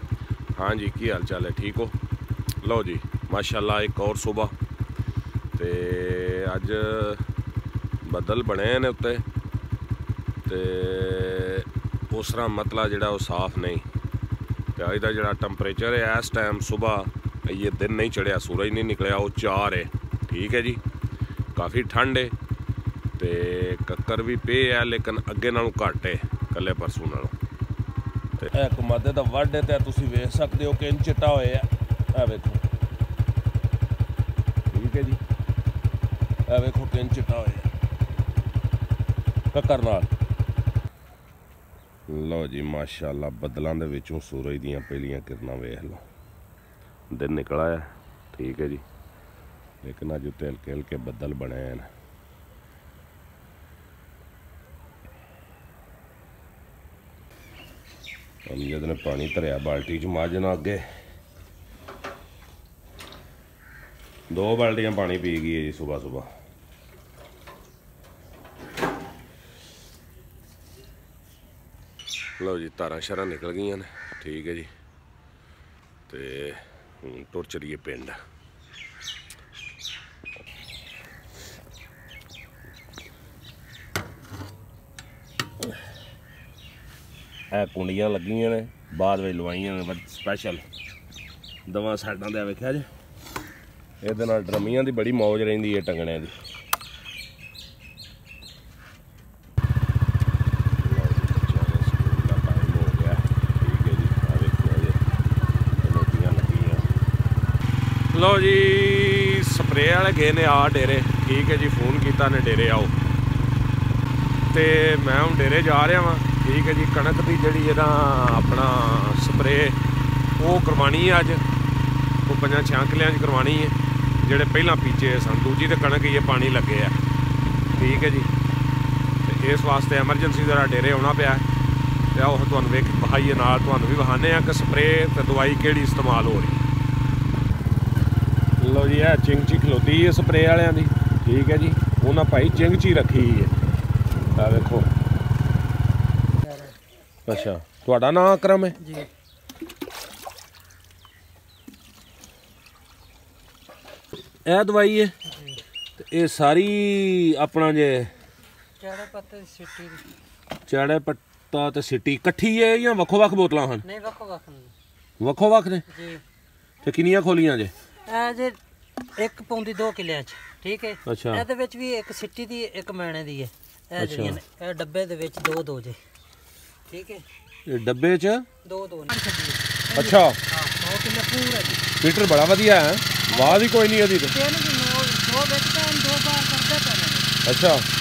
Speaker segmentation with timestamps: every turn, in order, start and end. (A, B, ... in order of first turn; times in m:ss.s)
0:00.6-0:02.0 A
0:02.6-0:04.5 A
0:05.6-0:07.2 A
0:08.0-0:09.2 A
0:10.4-0:13.8 A
0:14.8-0:20.8 A
0:21.5-0:22.3 A
0:23.2-0:27.3 A
0:28.4-0:32.6 A
0:34.7-0:35.2 A
0:36.5-0:37.7 A
0:39.5-0:40.1 A
0:42.1-0:46.0 A
0:47.1-0:48.8 A
0:49.8-0:51.9 A
0:58.5-1:00.8 A
1:04.3-1:06.3 A
1:12.4-1:14.7 A
1:16.1-1:18.2 A
1:27.5-1:30.6 A
1:31.7-1:32.9 A
1:34.0-1:36.3 A
1:40.8-1:45.0 A
1:45.8-1:46.9 A
1:48.1-1:52.9 A
1:54.5-1:59.8 A
2:00.4-2:01.4 A
2:02.2-2:07.0 A
2:07.7-2:08.3 A
2:09.2-2:11.4 A
2:12.1-2:16.6 A
2:18.6-2:23.5 A
2:24.4-2:24.9 A
2:26.4-2:26.7 B
2:27.3-2:28.8 A
2:28.8-2:29.1 B
2:34.4-2:35.1 A
2:35.2-2:35.6 B
2:36.0-2:38.1 A
2:38.8-2:40.1 B
2:40.7-2:43.8 A
2:43.8-2:44.7 B
2:45.2-2:45.8 A
2:45.9-2:46.2 B
2:46.8-2:47.7 A
2:48.1-2:48.6 B
2:49.2-2:56.0 B
2:51.0-2:51.4 A
2:54.0-2:54.4 A
2:56.9-2:57.2 B
2:57.6-2:58.5 A
2:58.6-3:01.8 B
3:00.0-3:00.4 A
3:02.0-3:04.3 A
3:03.3-3:03.7 B
3:04.3-3:07.3 B
3:07.4-3:07.8 A